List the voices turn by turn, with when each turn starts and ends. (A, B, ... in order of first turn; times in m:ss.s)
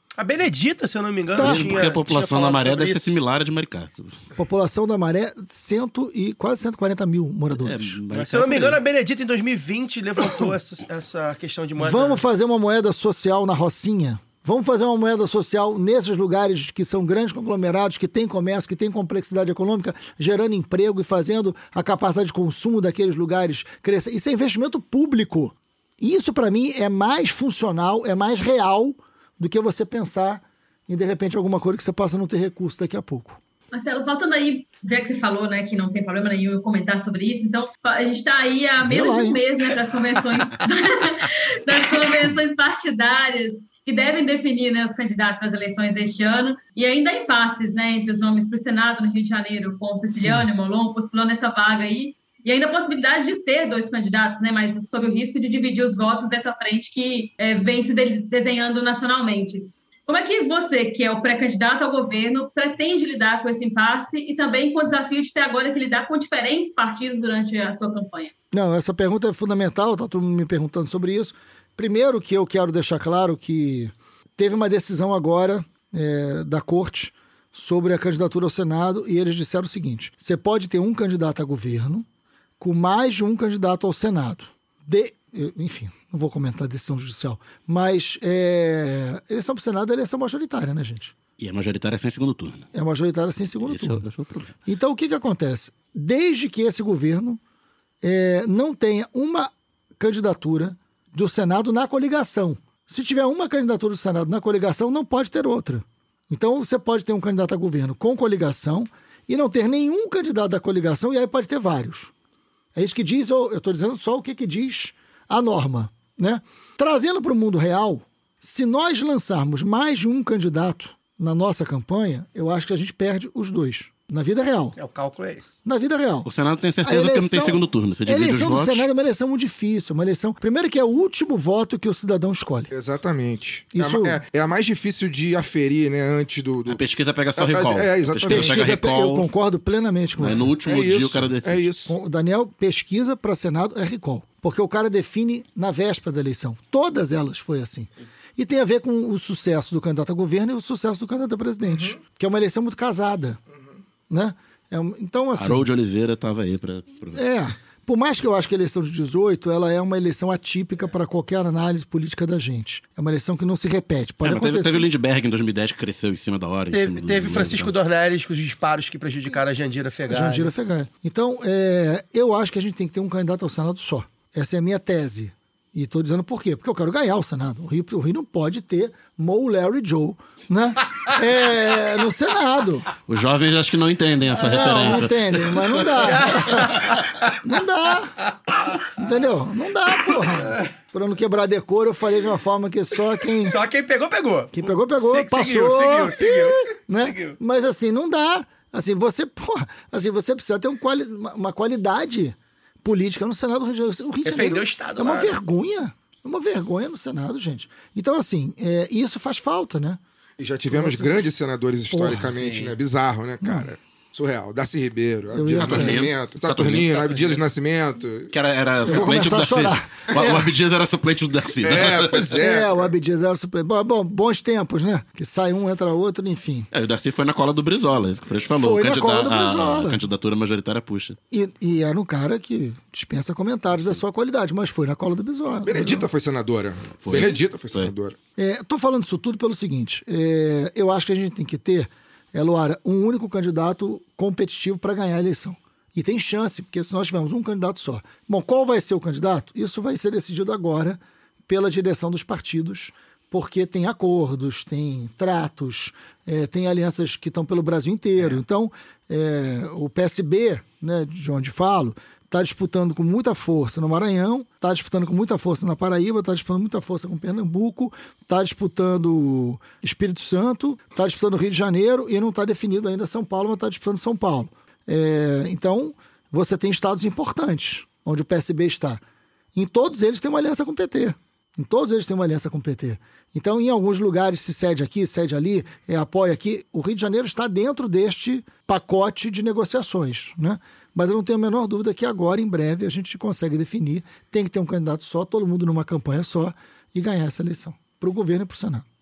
0:00.2-0:03.2 A
0:01.4-0:01.7 B
0:01.4-0:04.2 C
0:04.4-0:08.0 B
0:07.6-0:08.8 C
0:08.1-0:12.2 A
0:11.8-0:33.4 B
0:33.7-1:08.3 D
0:38.8-0:39.4 B
0:50.2-0:50.5 B
1:08.5-1:22.1 B
1:22.6-1:31.1 B
1:31.4-1:32.7 C
1:32.7-1:34.0 B
1:33.6-1:34.5 C
1:34.7-1:37.4 B
1:38.0-1:52.1 B
1:52.8-2:04.8 B
2:04.8-2:05.5 A
2:05.6-2:06.3 B
2:06.2-2:08.9 C
2:06.8-2:12.7 B
2:12.7-2:16.8 E
2:13.7-2:14.2 B
2:16.7-2:19.3 C
2:17.4-2:18.8 E
2:18.3-2:20.5 B
2:20.2-2:21.7 C
2:20.6-2:22.0 E
2:21.9-2:33.4 B
2:31.7-2:32.0 E
2:34.1-2:35.7 B
2:35.4-2:37.2 C
2:37.1-2:44.9 B
2:44.2-2:47.7 C
2:46.7-2:50.5 A
2:50.1-3:02.9 B
3:03.1-3:05.8 C
3:04.4-3:06.9 B
3:06.0-3:07.4 A
3:07.4-3:08.3 B
3:08.9-3:13.6 B
3:13.4-3:17.4 A
3:14.5-3:30.0 B
3:24.2-3:25.3 A
3:30.4-3:38.3 E
3:30.7-3:31.2 B
3:31.9-3:32.4 B
3:32.2-3:32.7 C
3:33.4-3:33.7 B
3:35.3-3:36.1 B
3:35.5-3:37.4 C
3:38.3-3:42.4 C
3:38.9-3:40.5 B
3:41.6-3:42.8 E
3:42.3-3:46.7 B
3:46.7-3:51.2 C
3:48.5-3:50.1 B
3:51.3-3:56.1 B
3:55.6-3:58.2 E
3:57.0-3:57.9 C
3:58.4-4:39.0 B
4:39.6-4:58.9 B